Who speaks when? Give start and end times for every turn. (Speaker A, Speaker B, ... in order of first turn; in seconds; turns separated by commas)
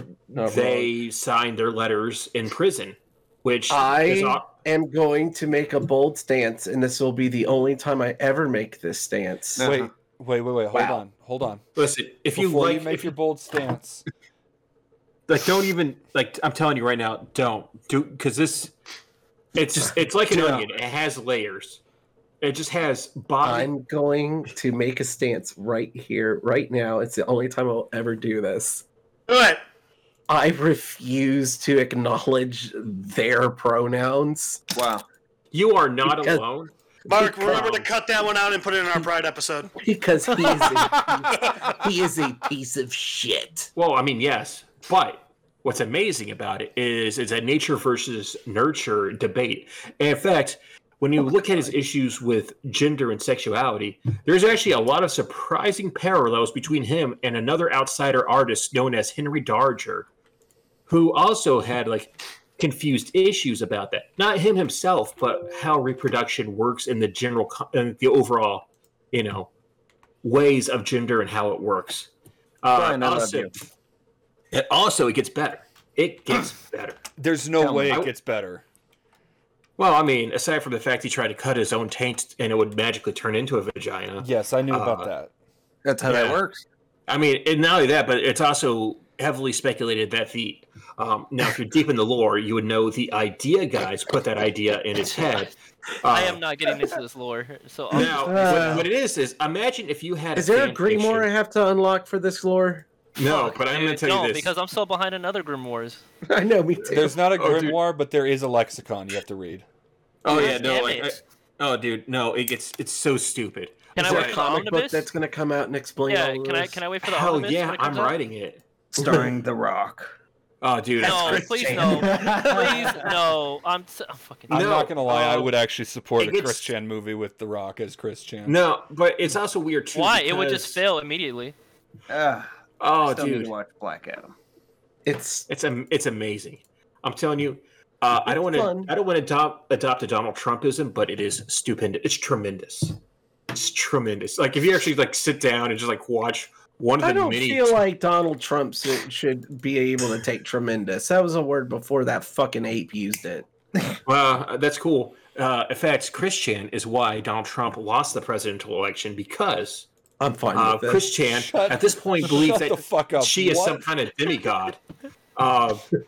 Speaker A: 0.3-0.9, Speaker B: 0.4-4.5, Speaker A: 3.7-9.7, Speaker C: 9.6-9.9, Speaker D: 9.6-11.6, Speaker A: 10.7-11.0, Speaker B: 11.8-13.2, Speaker D: 12.3-14.0, Speaker B: 15.3-18.7, Speaker B: 19.6-21.8, Speaker C: 20.3-20.6, Speaker B: 22.4-23.7, Speaker A: 23.4-28.8, Speaker E: 29.3-29.6, Speaker A: 30.3-34.6, Speaker C: 34.8-35.0, Speaker B: 35.5-36.7, Speaker A: 36.0-36.4, Speaker A: 37.1-37.8, Speaker E: 37.1-39.8, Speaker B: 37.5-37.9, Speaker A: 39.8-43.7, Speaker E: 40.4-41.7, Speaker B: 43.8-60.1, Speaker B: 60.9-69.5, Speaker B: 70.2-72.1, Speaker B: 72.6-73.5, Speaker C: 72.7-73.5, Speaker B: 74.5-77.0, Speaker D: 77.2-78.6, Speaker C: 77.6-78.0, Speaker B: 77.9-78.1, Speaker B: 79.8-85.1, Speaker D: 84.2-85.3, Speaker C: 85.8-86.6, Speaker B: 86.0-86.4, Speaker B: 87.1-96.4, Speaker F: 96.1-98.7, Speaker A: 97.9-98.9, Speaker B: 97.9-101.3, Speaker A: 100.3-102.9, Speaker B: 103.2-104.5, Speaker F: 103.2-106.0, Speaker A: 106.3-107.2, Speaker B: 106.8-107.8, Speaker D: 106.9-109.7, Speaker B: 110.2-114.5, Speaker F: 110.3-111.2, Speaker F: 114.0-115.1, Speaker A: 114.0-116.8, Speaker F: 116.1-118.2, Speaker B: 117.0-118.6, Speaker C: 119.0-120.2, Speaker B: 120.6-121.8, Speaker A: 121.0-123.0, Speaker F: 121.0-124.6, Speaker C: 121.8-123.1, Speaker B: 124.5-125.6, Speaker D: 124.5-128.6, Speaker B: 126.2-126.7, Speaker B: 128.5-130.8, Speaker F: 129.9-131.6, Speaker C: 132.1-132.5, Speaker B: 132.8-133.5, Speaker C: 133.0-134.3, Speaker A: 135.1-135.5, Speaker B: 135.5-143.0, Speaker A: 138.2-138.9, Speaker B: 143.5-147.8, Speaker A: 147.0-153.5, Speaker B: 154.1-159.9, Speaker A: 160.2-161.1, Speaker B: 160.5-164.8, Speaker D: 161.3-163.9, Speaker B: 165.3-165.9